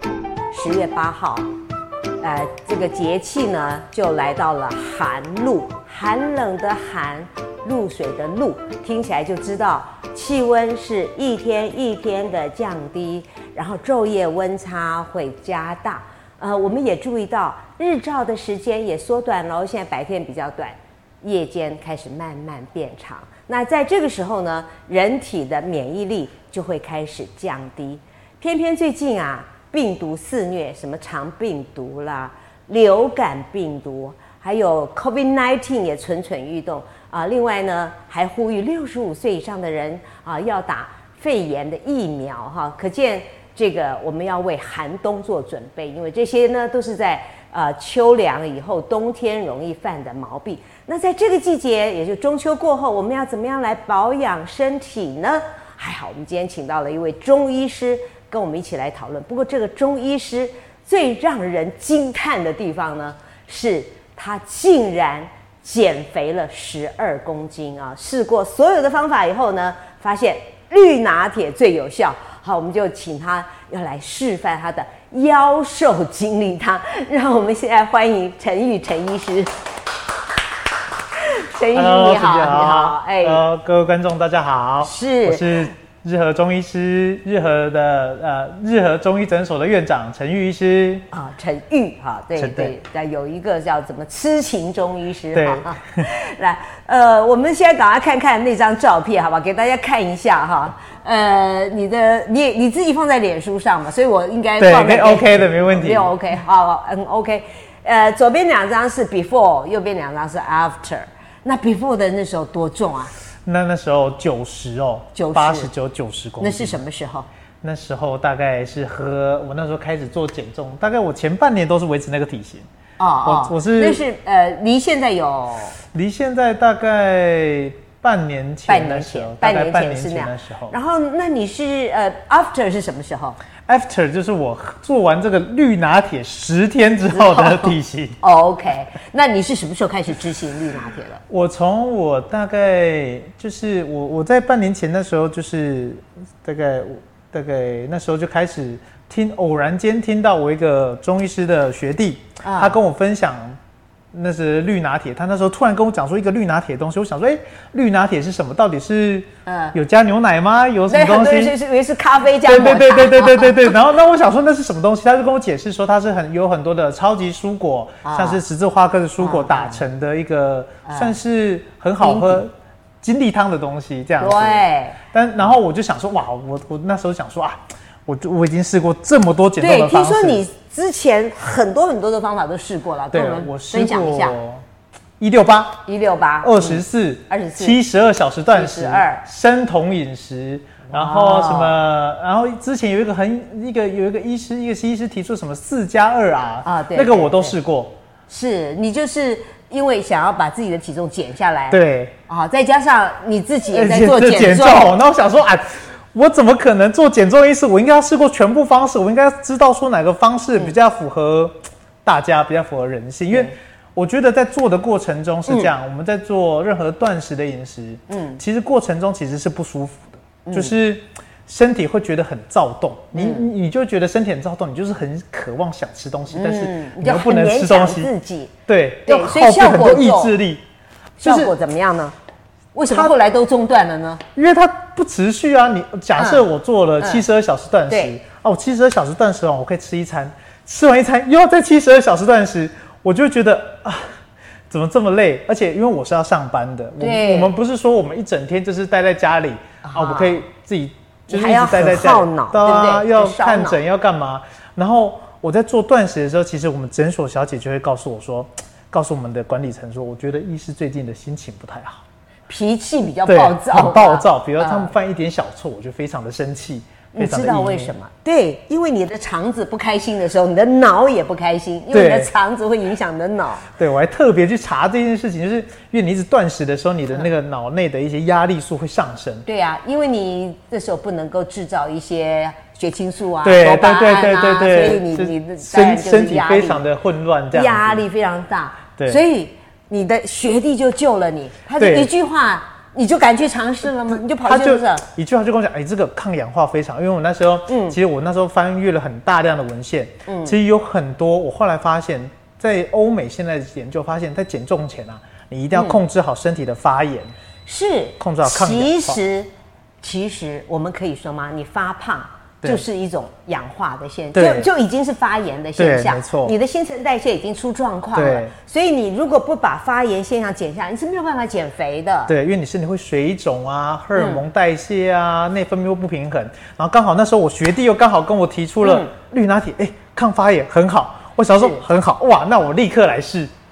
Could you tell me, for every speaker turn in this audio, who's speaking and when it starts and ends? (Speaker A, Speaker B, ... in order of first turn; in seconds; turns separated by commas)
Speaker A: 0.5-1.5, Speaker A: 2.2-79.5, Speaker A: 81.2-83.4, Speaker B: 81.7-91.0, Speaker A: 84.8-85.7, Speaker A: 91.1-113.1, Speaker B: 92.4-92.7, Speaker B: 95.3-96.0, Speaker B: 104.6-106.1, Speaker B: 113.4-116.8, Speaker A: 115.1-115.7, Speaker A: 116.4-117.3, Speaker B: 117.6-122.7, Speaker A: 123.0-125.8, Speaker B: 123.2-124.0, Speaker B: 125.9-130.7, Speaker A: 128.7-133.4, Speaker B: 133.7-138.2, Speaker A: 137.2-141.2, Speaker B: 141.3-153.6, Speaker A: 152.4-152.8, Speaker B: 154.1-161.5, Speaker A: 159.4-159.7, Speaker A: 160.9-163.6, Speaker B: 162.4-180.4, Speaker A: 168.0-168.4, Speaker A: 169.2-169.8, Speaker A: 170.8-171.2, Speaker A: 172.0-172.4, Speaker A: 174.2-175.0, Speaker A: 179.6-184.4, Speaker B: 183.1-184.6, Speaker B: 185.2-185.8, Speaker A: 185.8-187.8, Speaker B: 186.4-197.9, Speaker A: 188.5-189.2, Speaker A: 190.9-191.8, Speaker A: 196.6-197.5, Speaker A: 198.3-204.9, Speaker B: 201.7-202.1, Speaker B: 203.7-228.1, Speaker A: 218.1-218.4, Speaker A: 220.4-220.7, Speaker A: 223.1-223.5, Speaker A: 226.3-228.5, Speaker B: 228.7-230.6, Speaker A: 229.1-230.3, Speaker B: 231.2-231.5, Speaker A: 231.2-232.1, Speaker A: 232.7-234.2, Speaker B: 232.9-233.1, Speaker B: 234.3-244.2, Speaker A: 236.2-236.4, Speaker A: 237.9-238.1, Speaker B: 244.7-262.0, Speaker A: 247.0-247.5, Speaker A: 249.8-250.4, Speaker A: 251.3-253.8, Speaker A: 262.5-264.9, Speaker B: 263.2-267.9, Speaker A: 267.1-273.7, Speaker B: 271.9-272.3, Speaker B: 273.8-279.4, Speaker A: 279.4-286.8, Speaker B: 283.4-288.0, Speaker A: 287.5-295.0, Speaker B: 291.8-292.1, Speaker B: 294.1-307.3, Speaker A: 297.7-297.9, Speaker A: 300.3-300.6, Speaker A: 305.7-306.0, Speaker A: 307.6-309.5, Speaker B: 308.2-309.2, Speaker A: 310.0-322.3, Speaker B: 314.3-314.7, Speaker B: 315.8-316.5, Speaker B: 318.1-318.5, Speaker B: 322.3-333.5, Speaker A: 324.1-324.4, Speaker A: 328.8-329.1